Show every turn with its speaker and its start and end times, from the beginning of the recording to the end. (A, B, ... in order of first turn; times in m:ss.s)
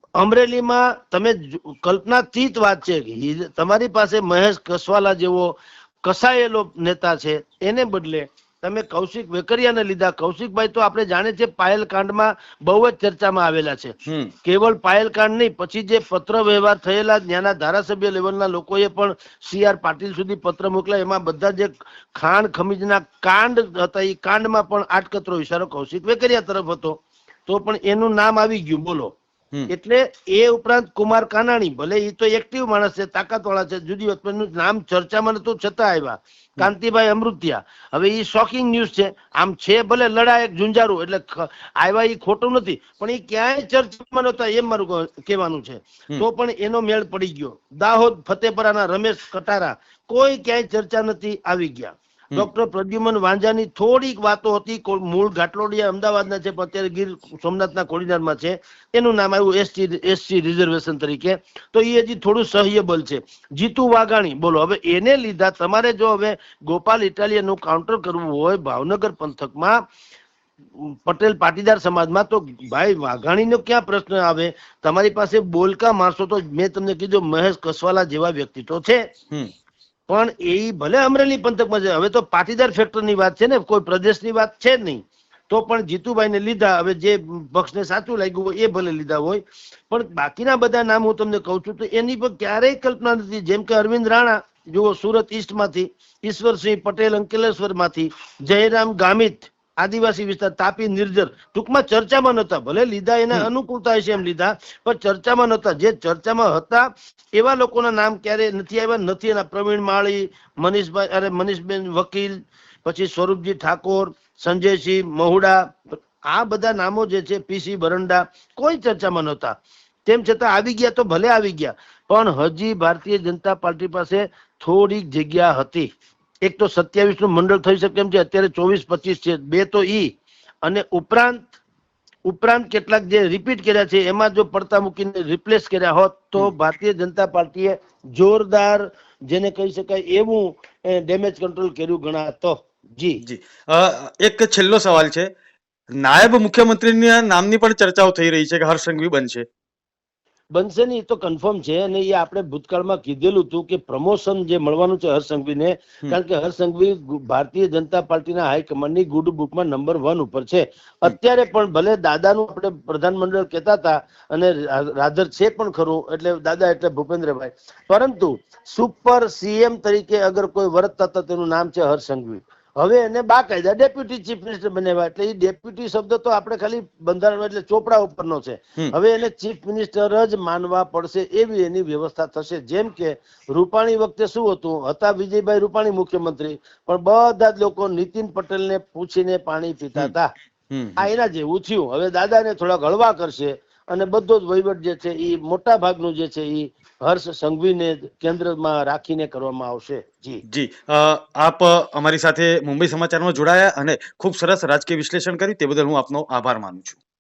0:00.2-0:13.9 A
0:14.0-0:14.3 B
0:14.4-0:29.1 A
0:29.7-1:09.8 A
1:10.8-1:19.0 A
1:20.1-1:55.7 A
1:56.3-2:05.9 A
2:06.4-2:10.1 A
2:10.6-2:11.5 A
2:12.2-2:23.2 A
2:23.2-2:25.3 B
2:26.0-2:29.4 B
2:30.5-3:10.3 A
3:10.7-3:11.0 B
3:11.0-3:20.4 A
3:20.5-3:27.0 B